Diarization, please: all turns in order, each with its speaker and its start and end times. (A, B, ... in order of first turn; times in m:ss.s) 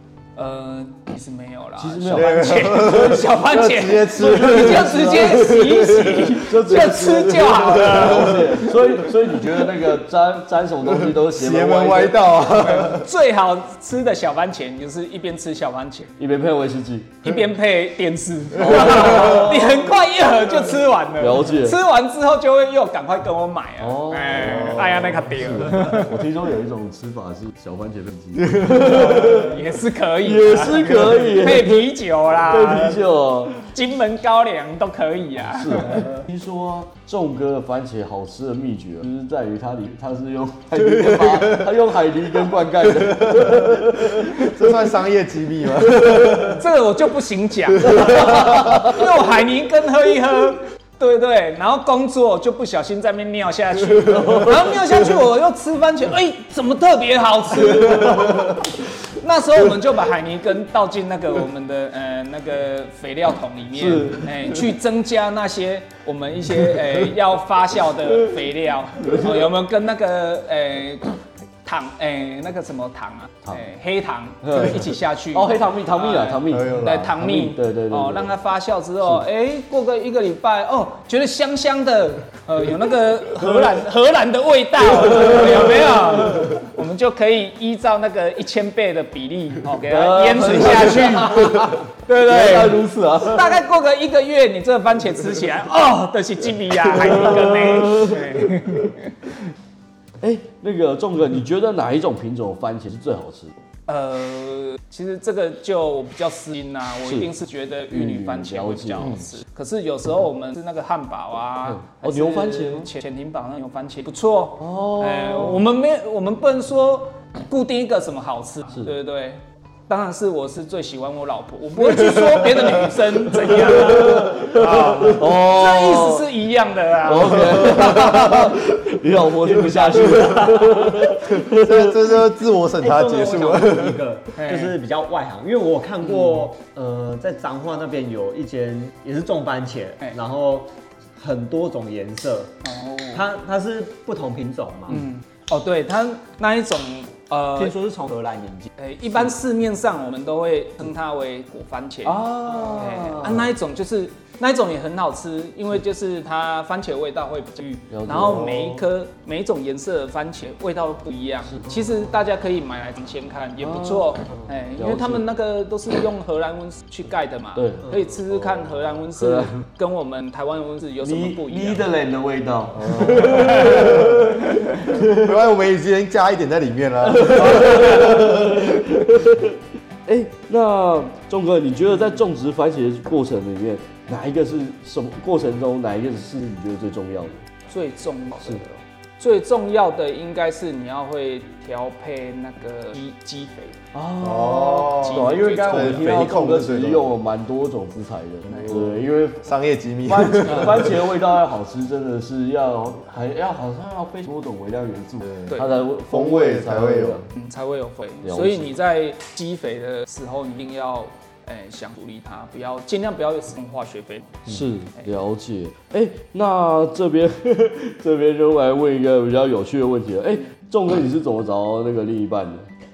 0:00.4-0:08.7 A
0:01.8-0:03.3 B
0:02.1-0:06.3 C
0:04.0-0:12.4 B
0:11.1-0:13.1 C
0:12.5-0:16.1 A
0:16.2-0:17.3 B
0:17.2-0:26.2 A
0:18.6-0:19.8 B
0:21.2-0:21.8 B
0:23.8-0:29.6 B
0:28.7-0:36.1 A
0:30.2-0:33.6 B
0:35.4-0:44.6 B
0:44.2-0:46.6 C
0:46.5-1:39.1 A
1:03.7-1:04.6 B
1:09.0-1:09.4 B
1:14.4-1:18.4 B
1:16.5-1:17.1 C
1:29.9-1:33.6 B
1:37.1-1:38.5 B
1:40.2-1:43.5 B
1:43.9-2:08.5 A
1:47.0-1:47.3 B
1:47.9-1:49.2 B
1:51.7-1:52.9 B
1:54.6-1:55.6 B
2:03.5-2:06.3 B
2:07.0-2:12.2 B
2:09.7-2:10.8 A
2:09.7-2:10.6 D
2:11.3-2:14.1 C
2:12.8-2:22.6 D
2:14.4-2:14.8 A
2:16.0-2:16.5 A
2:22.6-2:23.2 A
2:23.1-2:25.1 D
2:24.9-2:27.8 A
2:27.6-2:28.7 D
2:28.8-2:51.9 A
2:32.0-2:33.5 B
2:37.9-2:38.8 B
2:41.5-2:42.0 B
2:43.6-2:45.2 B
2:47.6-2:47.9 B
2:49.2-2:49.6 B
2:51.0-2:55.3 B
2:52.8-2:54.2 C
2:53.1-2:54.7 A
2:55.0-2:58.6 C
2:57.1-3:07.4 B
2:57.6-2:58.2 A
3:07.7-3:13.8 A
3:13.9-3:19.5 B
3:14.2-3:17.1 C
3:15.0-3:16.1 A
3:18.5-3:18.7 A
3:18.6-3:18.9 C
3:19.4-3:21.0 C
3:20.1-3:27.3 B
3:25.2-3:25.5 C
3:26.1-3:27.2 C
3:27.3-3:35.1 A
3:28.2-3:28.7 B
3:34.5-3:42.7 B